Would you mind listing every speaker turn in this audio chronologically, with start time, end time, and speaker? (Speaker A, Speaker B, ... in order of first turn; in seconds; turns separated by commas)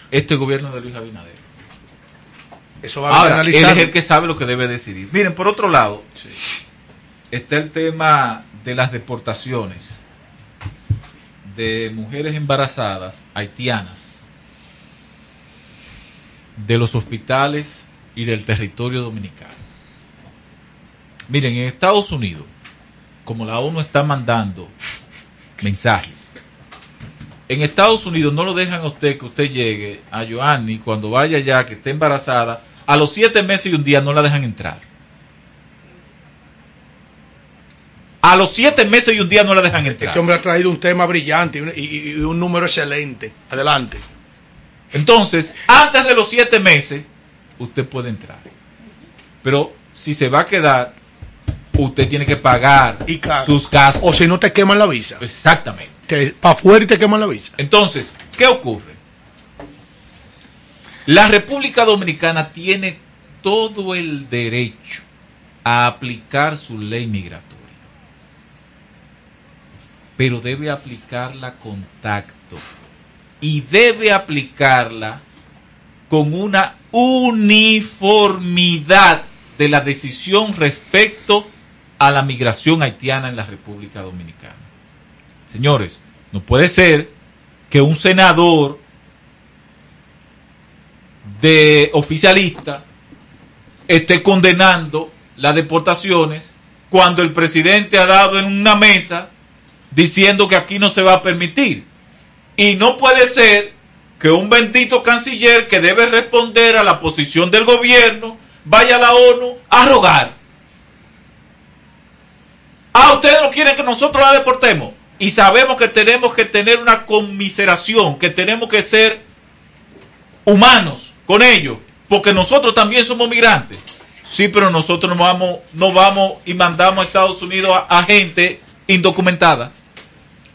Speaker A: 0.1-1.4, Speaker B: 2.8-3.9, Speaker A: 3.1-6.0, Speaker A: 7.3-10.0, Speaker A: 11.4-14.2, Speaker A: 16.6-19.6, Speaker A: 21.3-22.5, Speaker A: 23.2-24.7, Speaker A: 25.6-26.3, Speaker A: 27.5-34.8, Speaker A: 38.2-40.2, Speaker B: 39.8-44.0, Speaker A: 44.9-47.1, Speaker A: 47.6-48.5, Speaker A: 49.4-50.9, Speaker A: 51.8-54.3, Speaker B: 53.1-55.2, Speaker A: 55.2-55.9, Speaker B: 56.1-57.5, Speaker A: 57.6-59.0, Speaker A: 61.0-65.0, Speaker A: 65.6-67.8, Speaker A: 70.2-72.6, Speaker A: 73.4-75.2, Speaker A: 76.1-84.7, Speaker A: 85.5-87.1, Speaker A: 87.7-88.8, Speaker A: 91.2-92.8, Speaker A: 93.9-99.3, Speaker A: 99.9-101.8, Speaker A: 102.6-110.3, Speaker A: 112.9-119.2, Speaker A: 120.5-129.7